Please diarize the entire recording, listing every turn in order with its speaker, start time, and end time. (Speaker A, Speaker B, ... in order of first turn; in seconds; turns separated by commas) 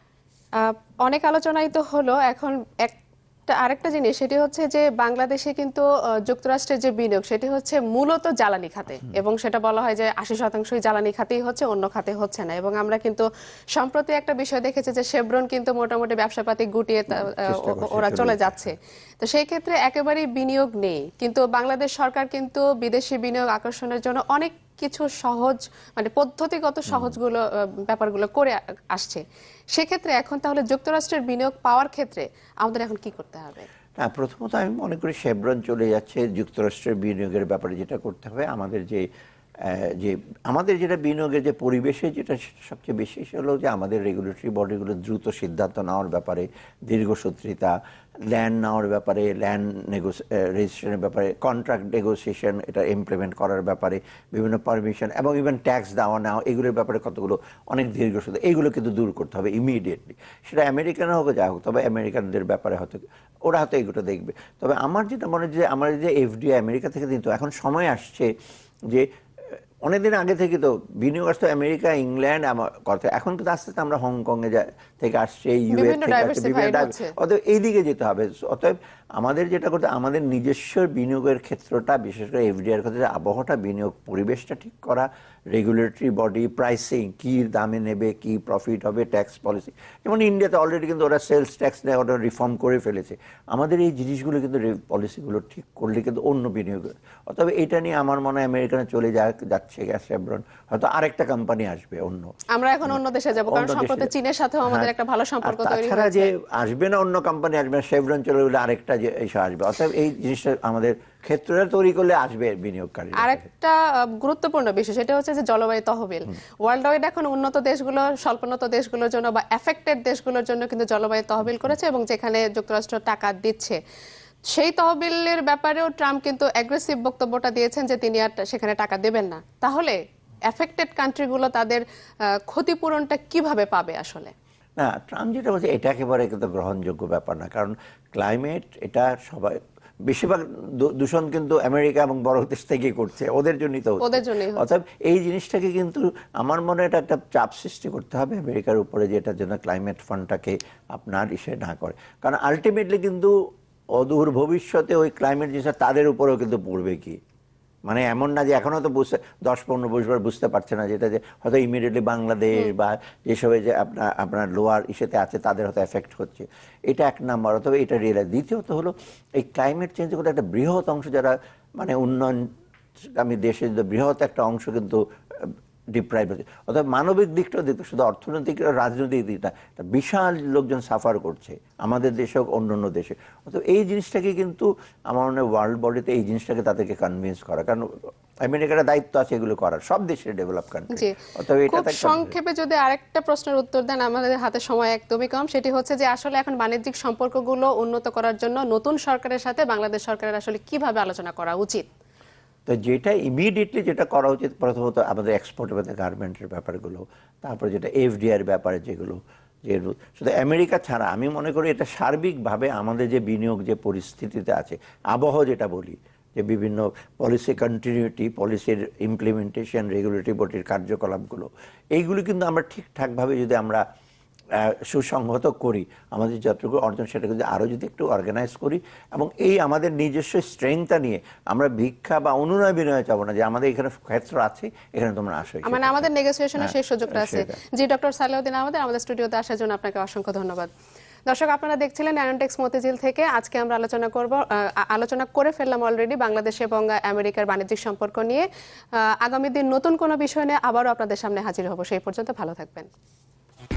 Speaker A: 0.6-29.2, Speaker B: 17.1-18.7, Speaker B: 26.9-27.2, Speaker A: 29.8-33.7, Speaker B: 34.0-39.1, Speaker B: 39.6-47.8, Speaker B: 48.3-68.3, Speaker B: 68.9-102.3, Speaker A: 75.7-77.1, Speaker A: 102.5-106.3, Speaker B: 102.9-104.1, Speaker B: 105.4-113.4, Speaker A: 113.2-123.8, Speaker A: 124.5-131.8, Speaker A: 132.3-134.3, Speaker B: 134.8-153.3, Speaker A: 144.0-144.7, Speaker B: 154.0-157.2, Speaker B: 157.9-172.5, Speaker B: 173.1-192.3, Speaker A: 190.9-201.9, Speaker B: 202.7-223.8, Speaker B: 224.6-237.5, Speaker A: 235.6-240.7, Speaker A: 241.3-252.9